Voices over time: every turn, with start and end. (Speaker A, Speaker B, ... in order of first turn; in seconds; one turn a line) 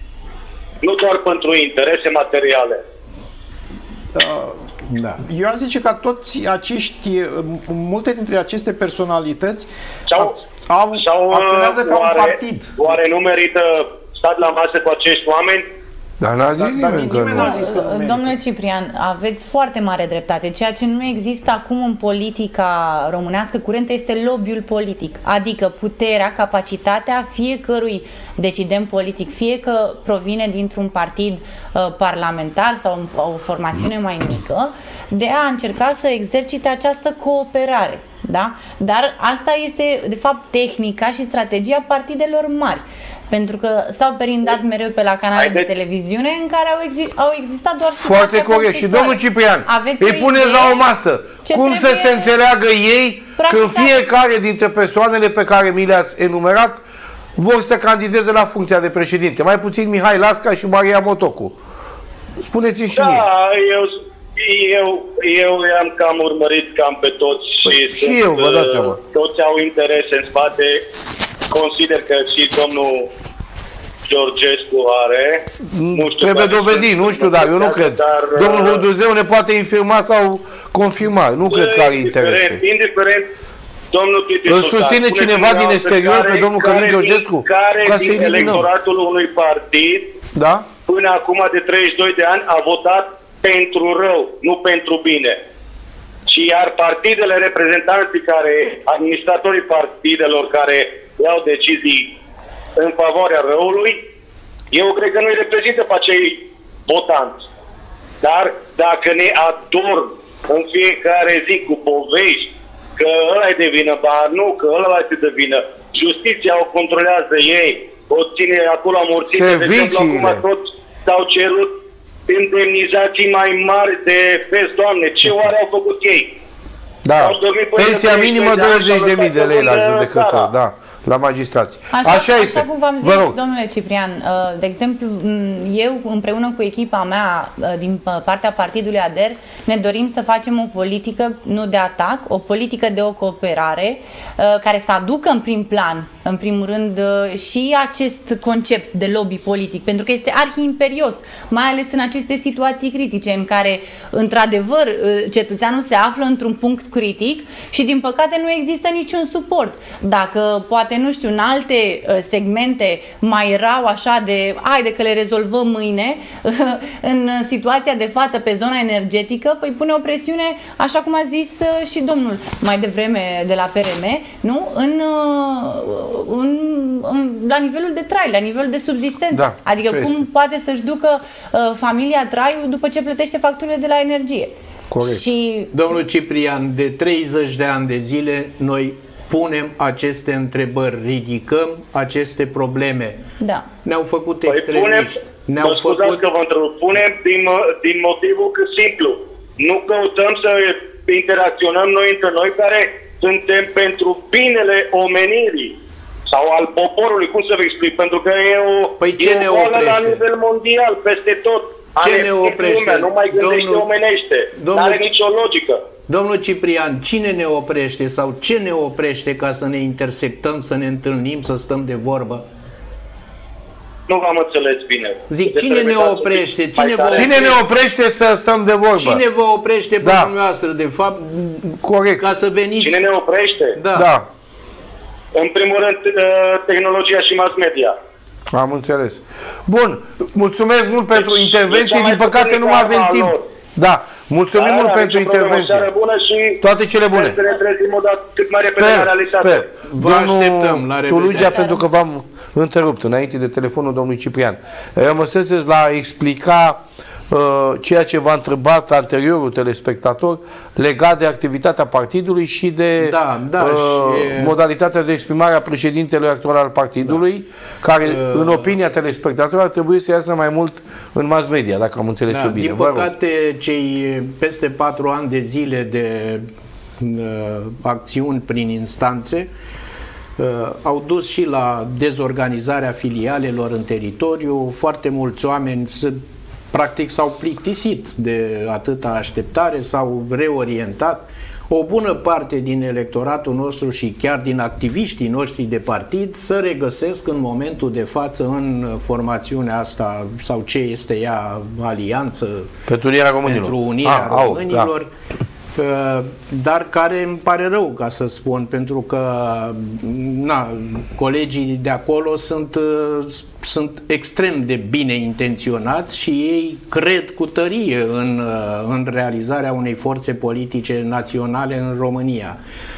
Speaker A: 0.8-2.8
Speaker B: 4.1-4.7
Speaker C: 4.9-5.2
Speaker B: 5.2-12.8
Speaker A: 10.1-10.4
Speaker A: 10.9-15.7
Speaker D: 16.2-17.7
Speaker B: 16.6-18.4
Speaker E: 16.9-50.9
Speaker A: 45.4-45.7
Speaker D: 48.0-56.8
Speaker E: 51.5-52.3
Speaker E: 53.4-54.0
Speaker D: 57.4-61.6
Speaker D: 62.4-63.3
Speaker A: 62.9-70.8
Speaker D: 67.6-69.0
Speaker A: 71.5-73.1
Speaker A: 74.1-78.8
Speaker D: 75.6-82.6
Speaker A: 81.5-83.3
Speaker A: 83.9-90.1
Speaker D: 84.5-88.7
Speaker D: 90.3-90.7
Speaker A: 90.9-95.4
Speaker A: 96.3-102.1
Speaker A: 102.8-104.0
Speaker A: 104.7-107.4
Speaker A: 108.2-121.7
Speaker D: 119.3-120.4
Speaker A: 122.3-126.3
Speaker D: 127.0-133.4
Speaker A: 127.2-130.5
Speaker E: 131.9-185.7
Speaker D: 179.3-180.2
Speaker D: 184.9-185.2
Speaker C: 185.7-193.2
Speaker E: 193.4-193.7
Speaker C: 193.8-196.2
Speaker A: 194.5-205.8
Speaker A: 206.3-215.8
Speaker C: 209.0-210.2
Speaker C: 212.0-213.9
Speaker C: 214.6-215.0
Speaker C: 216.1-222.4
Speaker A: 224.1-227.6
Speaker C: 225.3-227.6
Speaker D: 227.1-229.2
Speaker C: 229.0-233.0
Speaker D: 230.0-230.3
Speaker D: 231.7-232.2
Speaker A: 232.8-233.8
Speaker C: 233.8-234.1
Speaker D: 233.9-234.3
Speaker A: 235.3-238.0
Speaker D: 238.5-245.9
Speaker A: 241.1-243.4
Speaker A: 244.6-246.6
Speaker D: 246.6-247.4
Speaker A: 247.1-249.7
Speaker D: 248.6-273.1
Speaker C: 249.9-251.8
Speaker C: 263.0-264.5
Speaker C: 268.0-268.7
Speaker C: 272.3-276.5
Speaker C: 277.0-279.5
Speaker C: 280.4-286.2
Speaker C: 286.7-302.7
Speaker D: 302.9-304.9
Speaker C: 303.4-305.1
Speaker C: 305.8-322.6